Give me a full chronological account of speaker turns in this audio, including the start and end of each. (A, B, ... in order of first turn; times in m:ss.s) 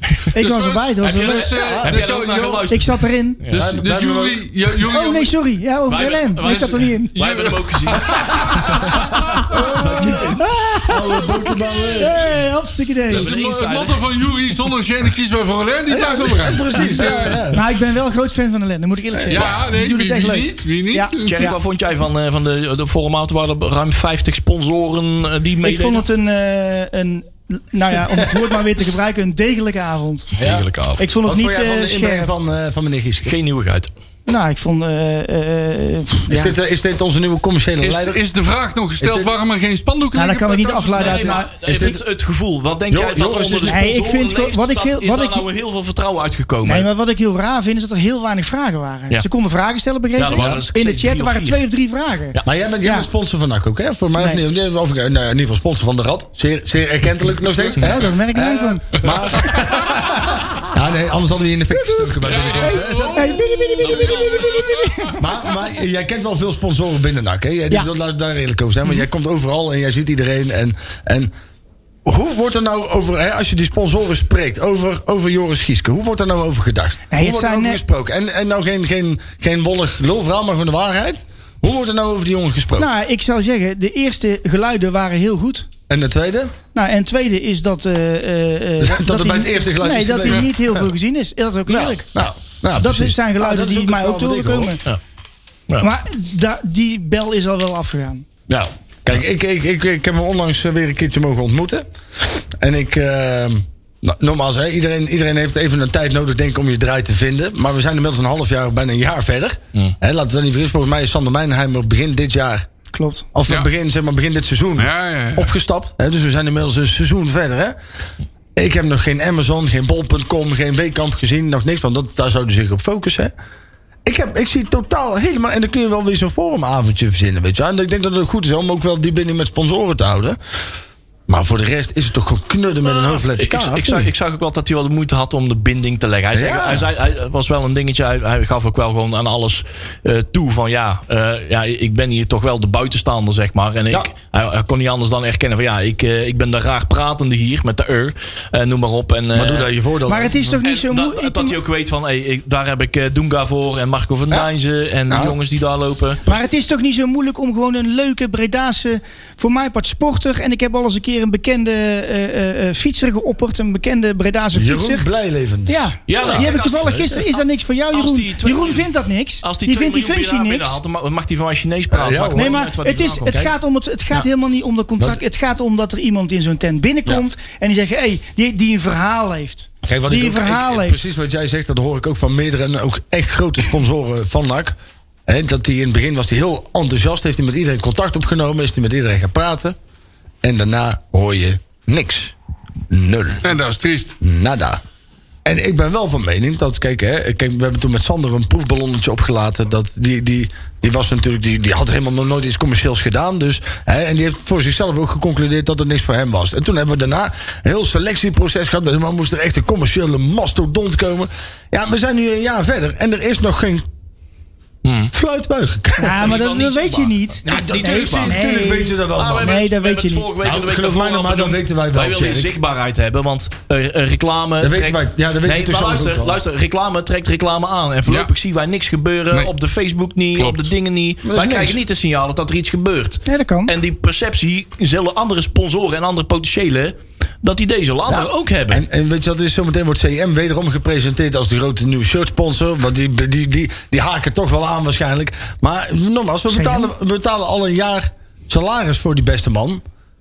0:00.3-0:01.5 A
0:00.4-0:02.7 B
0:01.0-0:03.8 C
0:01.5-0:02.1 D
0:02.7-0:03.4 A
0:03.5-0:04.8 D
0:03.5-0:05.3 B
0:04.9-0:07.2 A
0:05.9-0:10.4 C
0:06.5-0:10.2 B
0:08.3-0:12.3 D
0:10.0-0:11.3 A
0:12.0-0:13.3 A
0:13.1-0:17.4 B
0:13.1-0:14.0 C
0:15.9-0:17.7 D
0:17.5-0:21.6 A
0:19.1-0:19.6 D
0:19.3-0:21.5 B
0:21.2-0:26.1 C
0:25.6-0:30.3 A
0:30.4-0:31.0 C
0:30.4-0:30.7 D
0:31.0-0:32.3 A
0:31.2-0:33.4 D
0:33.3-0:33.9 C
0:34.3-0:36.6 A
0:36.3-0:38.2 D
0:37.8-0:41.4 B
0:39.0-0:39.3 D
0:40.1-0:41.5 A
0:41.0-0:46.9 C
0:41.5-0:42.0 D
0:42.9-0:43.8 D
0:43.7-0:45.4 A
0:46.6-0:53.1 A
0:50.2-0:51.6 C
0:50.3-0:50.6 D
0:52.4-1:03.4 D
0:57.8-0:59.1 A
0:59.0-0:59.8 B
1:02.2-1:05.1 B
1:02.6-1:05.2 A
1:03.8-1:04.6 C
1:05.2-1:11.3 D
1:12.0-1:22.9 D
1:17.1-1:17.8 A
1:22.8-1:25.7 A
1:25.9-1:26.5 D
1:26.7-1:32.1 A
1:28.8-1:30.5 D
1:31.7-1:34.8 D
1:32.8-1:34.8 A
1:35.8-1:38.3 A
1:38.5-1:41.9 D
1:42.6-1:52.7 D
1:52.9-1:53.3 A
1:53.3-1:57.8 D
1:54.8-1:55.5 B
1:58.6-2:03.3 D
2:04.0-2:10.4 D
2:11.3-2:14.1 D
2:12.9-2:29.7 C
2:16.3-2:16.9 D
2:29.3-2:30.6 D
2:30.1-2:31.6 A
2:30.6-2:36.2 C
2:35.1-2:35.4 D
2:36.3-2:45.1 A
2:44.5-2:46.5 D
2:45.7-2:50.8 A
2:46.1-2:48.9 C
2:49.4-2:53.5 C
2:51.9-2:52.6 D
2:52.4-3:01.0 A
2:59.8-3:04.8 D
3:05.3-3:09.8 D
3:10.4-3:12.4 D
3:12.9-3:13.4 D
3:13.4-3:14.1 B
3:14.2-3:14.8 D
3:15.4-3:33.9 D
3:34.8-3:35.1 C
3:35.1-3:36.4 D
3:36.0-3:40.3 A
3:36.2-3:38.4 C
3:37.5-3:39.6 D
3:39.1-3:58.8 C
3:40.4-3:42.6 D
3:44.6-3:46.4 D
3:48.1-3:48.3 B
3:50.4-3:50.7 B
3:51.2-3:51.8 D
3:53.3-3:53.8 A
3:58.1-4:09.8 D
4:06.5-4:06.9 A